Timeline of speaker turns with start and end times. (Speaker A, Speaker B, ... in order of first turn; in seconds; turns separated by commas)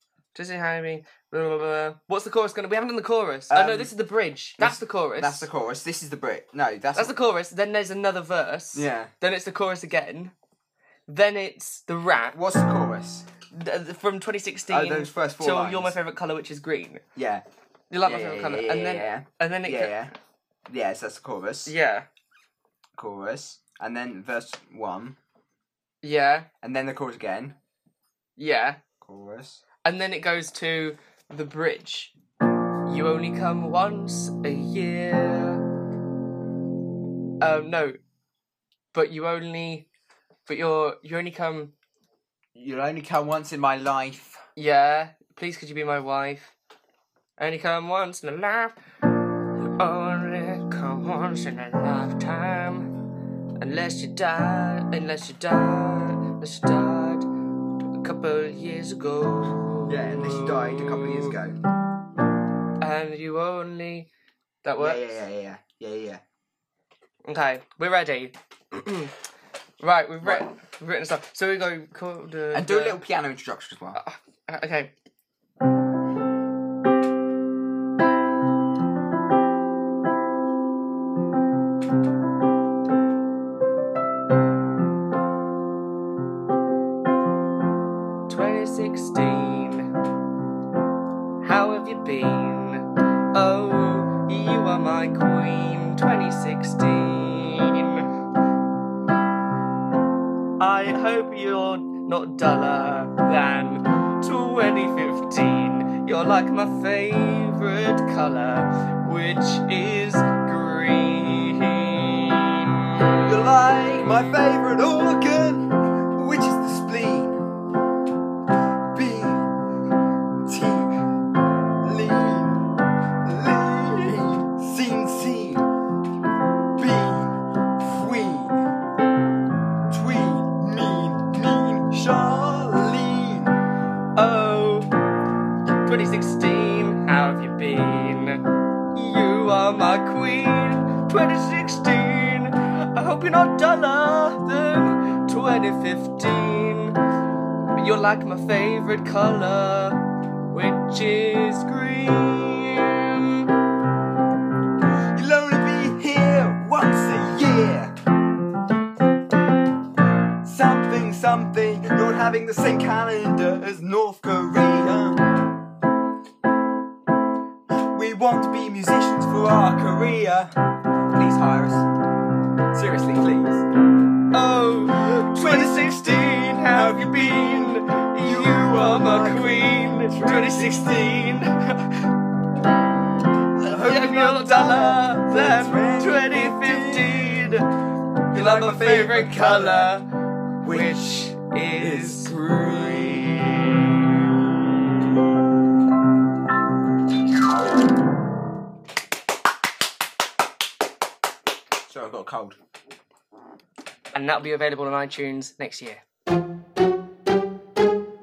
Speaker A: 0.3-5.5, Speaker B: 3.5-3.9, Speaker B: 4.6-7.1, Speaker A: 6.9-10.3, Speaker B: 8.7-9.1, Speaker A: 11.1-12.4, Speaker B: 12.3-13.3, Speaker A: 13.5-17.0, Speaker B: 14.7-15.9, Speaker B: 17.1-17.4, Speaker A: 17.9-20.0, Speaker B: 18.0-20.1, Speaker B: 20.7-21.7, Speaker A: 21.6-22.1, Speaker B: 23.0-25.2, Speaker A: 26.0-26.5, Speaker B: 26.6-27.6, Speaker A: 28.4-28.8, Speaker B: 29.0-29.6, Speaker A: 29.8-32.1, Speaker A: 32.9-35.6, Speaker A: 37.4-38.0, Speaker A: 38.9-39.9, Speaker A: 40.5-41.7, Speaker B: 42.5-44.4, Speaker A: 44.5-46.5, Speaker A: 47.4-48.7, Speaker A: 49.8-52.9, Speaker A: 53.6-57.3, Speaker A: 58.0-61.3, Speaker B: 59.9-61.6, Speaker A: 62.8-64.1, Speaker A: 64.6-65.2, Speaker B: 64.8-66.2, Speaker A: 67.2-69.1, Speaker A: 69.8-73.0, Speaker B: 72.5-74.0, Speaker A: 73.9-74.9, Speaker A: 88.3-89.9, Speaker A: 91.4-98.1, Speaker A: 100.6-114.3, Speaker B: 113.2-117.4, Speaker B: 118.9-119.5, Speaker B: 120.5-121.0, Speaker B: 121.8-122.6, Speaker B: 123.2-125.7, Speaker B: 126.8-128.6, Speaker B: 129.9-133.5, Speaker A: 134.2-134.9, Speaker A: 135.8-147.0, Speaker A: 147.7-153.5, Speaker B: 155.1-157.9, Speaker B: 160.4-165.2, Speaker B: 167.7-170.5, Speaker B: 171.0-171.9, Speaker B: 172.7-173.7, Speaker A: 174.3-182.0, Speaker B: 175.3-181.4, Speaker B: 183.6-187.6, Speaker A: 183.7-187.7, Speaker B: 188.3-190.0, Speaker A: 188.3-190.1, Speaker B: 190.6-193.8, Speaker A: 190.7-193.8, Speaker B: 201.9-202.6, Speaker A: 204.1-206.0